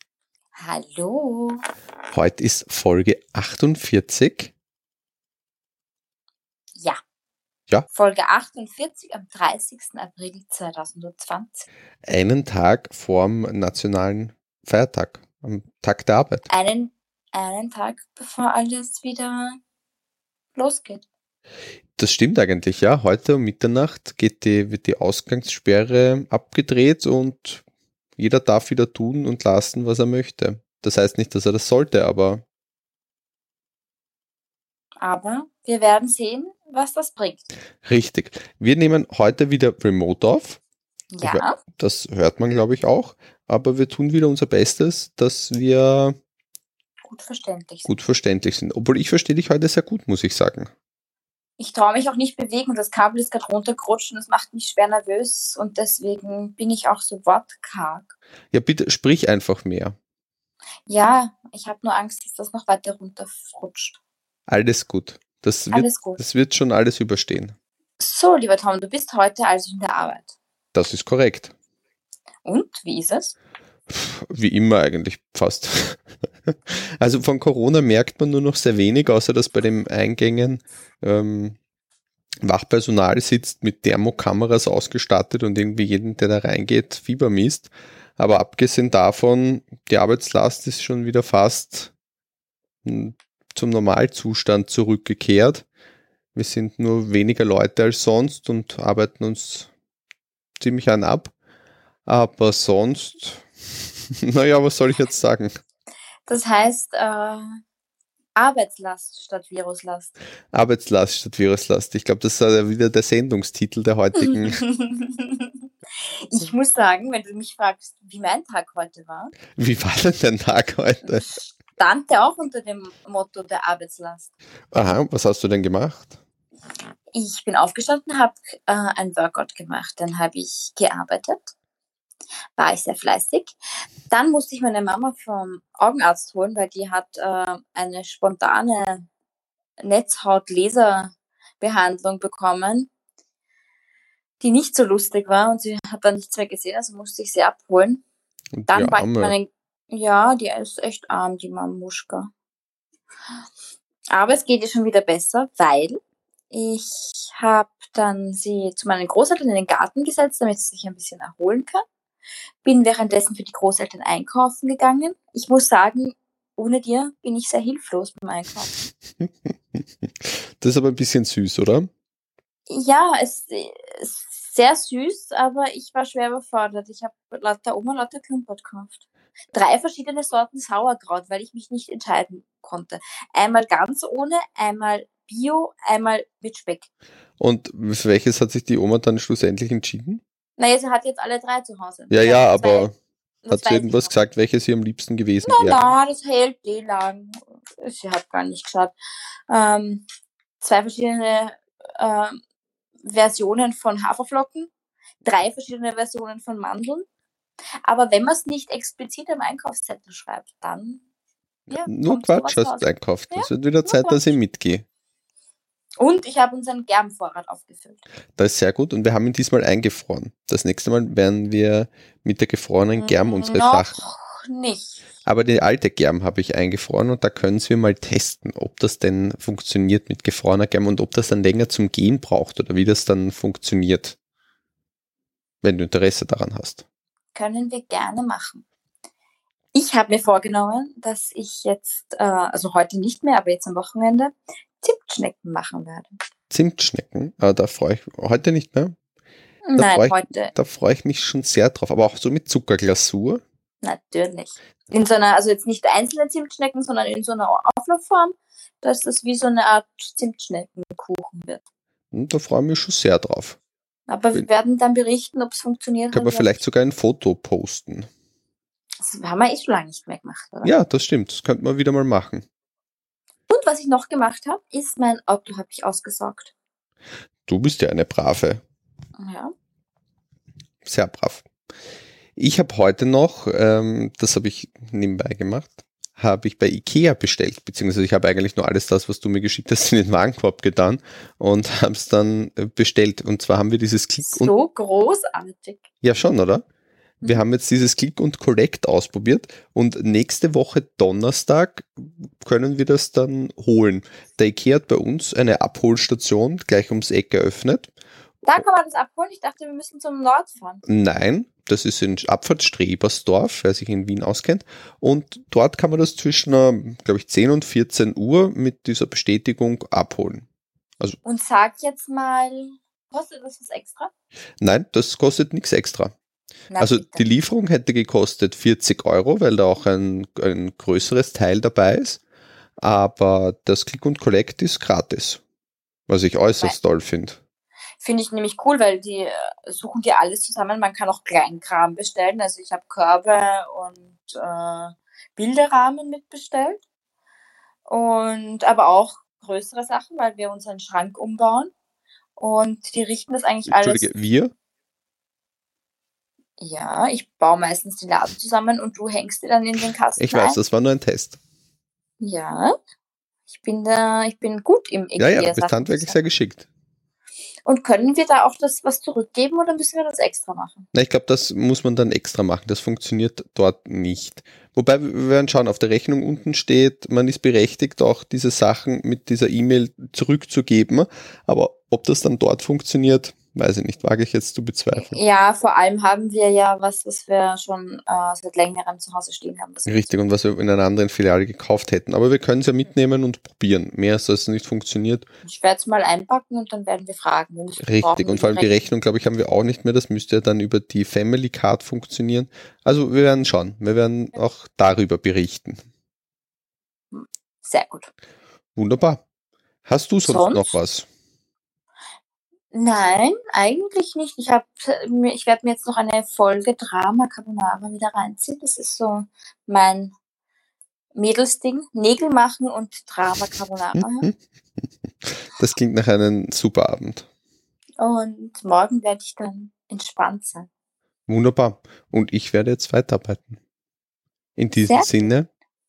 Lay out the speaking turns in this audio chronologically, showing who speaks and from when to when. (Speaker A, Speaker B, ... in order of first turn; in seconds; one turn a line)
Speaker A: 0.6-1.6
Speaker B: 2.1-4.5
Speaker A: 7.9-11.7
Speaker B: 12.1-16.5
Speaker A: 16.5-19.6
Speaker A: 20.6-21.0
Speaker B: 22.0-27.6
Speaker B: 28.2-32.4
Speaker A: 35.0-37.5
Speaker B: 37.8-40.6
Speaker A: 41.1-41.6
Speaker B: 41.2-46.2
Speaker A: 47.1-47.9
Speaker B: 47.9-50.7
Speaker A: 51.6-58.1
Speaker B: 58.5-60.0
Speaker A: 60.9-64.0
Speaker B: 64.5-67.6
Speaker A: 65.7-66.2
Speaker A: 68.0-70.3
Speaker B: 70.7-71.5
Speaker A: 72.4-73.3
Speaker B: 73.9-81.6
Speaker B: 82.4-91.9
Speaker B: 92.8-95.7
Speaker B: 96.3-99.7
Speaker B: 100.6-101.3
Speaker B: 102.1-103.5
Speaker B: 104.2-105.6
Speaker A: 106.3-107.6
Speaker A: 108.4-110.1
Speaker B: 110.5-114.6
Speaker A: 114.2-115.5
Speaker A: 116.3-119.4
Speaker B: 119.6-121.3
Speaker A: 121.0-124.3
Speaker B: 124.7-126.2
Speaker A: 127.1-131.5
Speaker A: 132.6-133.5
Speaker A: 134.1-139.1
Speaker A: 139.8-142.9
Speaker A: 144.4-148.0
Speaker B: 148.5-149.3
Speaker A: 148.7-152.3
Speaker A: 154.1-156.0
Speaker A: 156.5-161.8
Speaker A: 162.6-168.8
Speaker B: 170.6-171.9
Speaker A: 172.7-179.0
Speaker A: 179.5-186.9
Speaker B: 187.4-190.2
Speaker A: 190.6-192.9
Speaker B: 192.1-192.9
Speaker A: 193.4-194.1
Speaker B: 193.5-195.9
Speaker A: 195.4-198.9
Speaker A: 199.5-200.1
Speaker A: 200.6-202.4
Speaker A: 203.0-204.7
Speaker A: 205.2-207.1
Speaker A: 207.8-211.0
Speaker B: 211.7-214.9
Speaker A: 211.7-214.3
Speaker A: 216.0-218.0
Speaker B: 218.4-224.0
Speaker A: 222.9-225.1
Speaker B: 225.2-234.2
Speaker B: 235.6-236.8
Speaker A: 237.3-238.6
Speaker A: 239.7-246.2
Speaker B: 246.5-248.9
Speaker A: 249.6-250.6
Speaker B: 249.8-253.4
Speaker A: 253.8-261.6
Speaker B: 262.1-263.6
Speaker A: 264.1-266.6
Speaker B: 266.1-268.1
Speaker A: 269.0-270.8
Speaker B: 270.6-272.4
Speaker A: 273.5-276.5
Speaker B: 277.5-278.6
Speaker A: 279.2-279.5
Speaker B: 280.8-281.5
Speaker B: 282.4-294.5
Speaker A: 294.2-295.8
Speaker B: 296.0-296.6
Speaker B: 297.2-307.9
Speaker A: 308.4-310.8
Speaker B: 310.9-320.5
Speaker A: 321.2-324.1
Speaker B: 324.6-326.1
Speaker A: 326.7-327.3
Speaker B: 326.8-332.2
Speaker B: 332.8-335.4
Speaker B: 336.1-337.4
Speaker A: 338.0-346.8
Speaker A: 347.9-351.7
Speaker A: 352.4-354.1
Speaker B: 353.7-354.5
Speaker A: 356.6-360.6
Speaker B: 360.2-361.4
Speaker A: 362.2-362.8
Speaker A: 363.5-366.2
Speaker B: 365.2-366.7
Speaker A: 367.6-370.9
Speaker B: 370.9-385.2
Speaker A: 384.9-390.1
Speaker B: 389.9-395.3
Speaker A: 395.4-398.9
Speaker B: 397.8-405.8
Speaker A: 407.1-408.1
Speaker B: 408.8-409.2
Speaker B: 409.9-411.1
Speaker A: 410.2-410.8
Speaker A: 412.7-420.1
Speaker A: 421.1-424.3
Speaker B: 424.0-424.3
Speaker B: 425.5-427.3
Speaker A: 428.0-430.7
Speaker B: 431.3-433.6
Speaker B: 434.6-435.5
Speaker A: 434.9-435.3